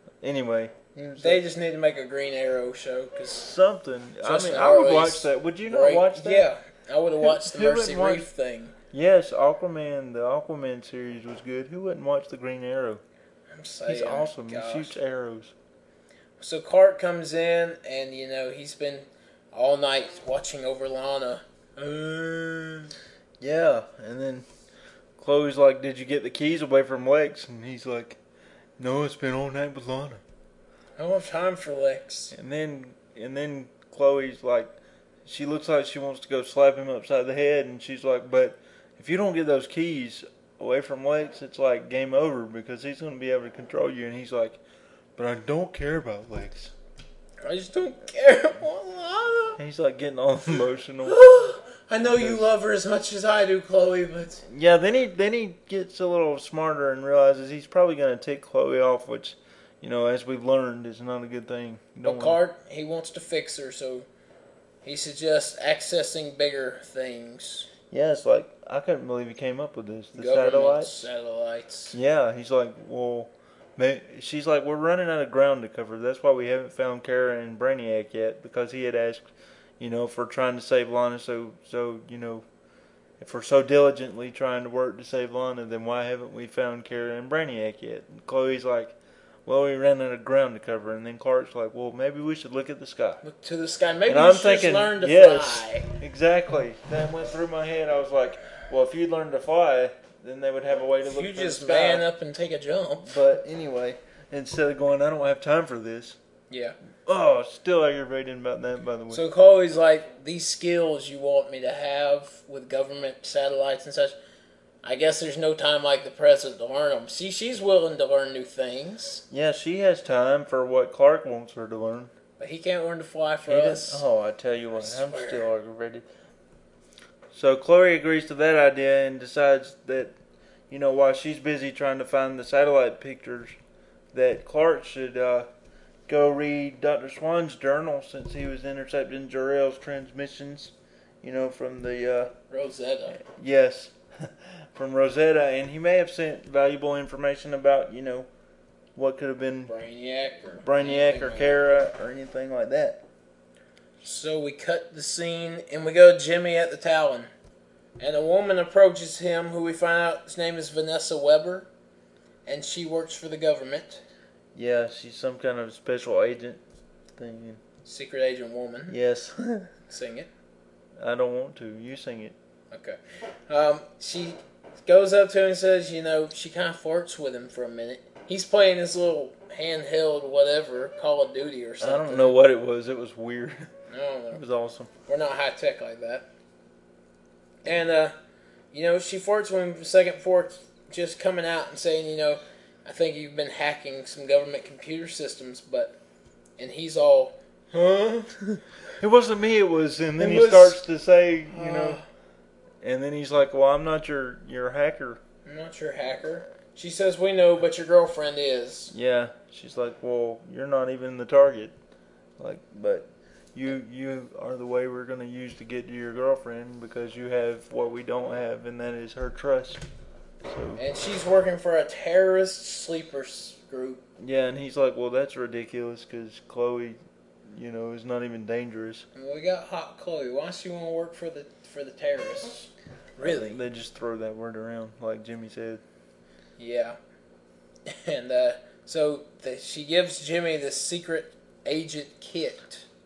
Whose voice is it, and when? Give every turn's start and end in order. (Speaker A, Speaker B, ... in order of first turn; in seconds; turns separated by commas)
Speaker A: 0.2-1.4, Speaker B: 1.2-3.5, Speaker A: 3.4-6.5, Speaker B: 4.2-8.8, Speaker A: 7.2-8.2, Speaker A: 8.9-13.0, Speaker B: 13.5-14.9, Speaker A: 13.8-15.5, Speaker B: 16.4-22.9, Speaker A: 23.4-24.5, Speaker A: 25.2-28.2, Speaker A: 28.8-30.2, Speaker B: 31.0-32.3, Speaker A: 32.3-34.7, Speaker A: 35.2-44.6, Speaker A: 45.1-46.7, Speaker B: 47.4-49.6, Speaker A: 49.6-51.2, Speaker B: 51.0-54.4, Speaker A: 52.0-52.5, Speaker A: 54.4-62.4, Speaker B: 62.0-64.1, Speaker B: 64.8-67.7, Speaker A: 67.9-71.1, Speaker B: 70.2-72.0, Speaker A: 71.9-79.2, Speaker A: 79.8-82.5, Speaker A: 83.2-93.2, Speaker B: 93.2-95.9, Speaker A: 94.1-102.0, Speaker B: 101.0-103.2, Speaker A: 103.0-106.2, Speaker B: 106.5-106.8, Speaker A: 107.0-109.2, Speaker B: 109.1-114.2, Speaker B: 114.8-119.2, Speaker A: 119.3-122.1, Speaker B: 122.4-124.0, Speaker A: 123.5-126.0, Speaker B: 124.8-125.5, Speaker A: 127.3-130.1, Speaker A: 130.7-133.6, Speaker A: 134.1-135.5, Speaker A: 136.1-142.3, Speaker B: 142.5-143.2, Speaker A: 143.1-148.3, Speaker A: 148.9-149.7, Speaker B: 149.7-151.6, Speaker A: 150.6-153.0, Speaker B: 154.0-157.3, Speaker B: 158.0-161.7, Speaker B: 162.4-164.0, Speaker A: 164.5-166.6, Speaker A: 167.1-167.6, Speaker B: 167.8-168.9, Speaker A: 168.9-169.7, Speaker B: 169.9-170.3, Speaker A: 171.0-172.3, Speaker B: 172.7-182.3, Speaker A: 181.8-183.7, Speaker B: 183.9-184.4, Speaker A: 184.3-184.9, Speaker B: 185.1-186.3, Speaker B: 187.6-188.1, Speaker B: 188.7-195.9, Speaker B: 196.6-198.4, Speaker A: 199.0-202.0, Speaker B: 200.2-200.8, Speaker B: 201.5-202.0, Speaker A: 202.8-205.2, Speaker B: 205.4-208.9, Speaker A: 208.9-211.7, Speaker A: 212.4-219.8, Speaker A: 220.4-220.8, Speaker B: 220.8-224.0, Speaker A: 224.2-229.1, Speaker B: 229.1-233.6, Speaker A: 233.2-235.8, Speaker B: 236.6-237.0, Speaker B: 237.8-242.8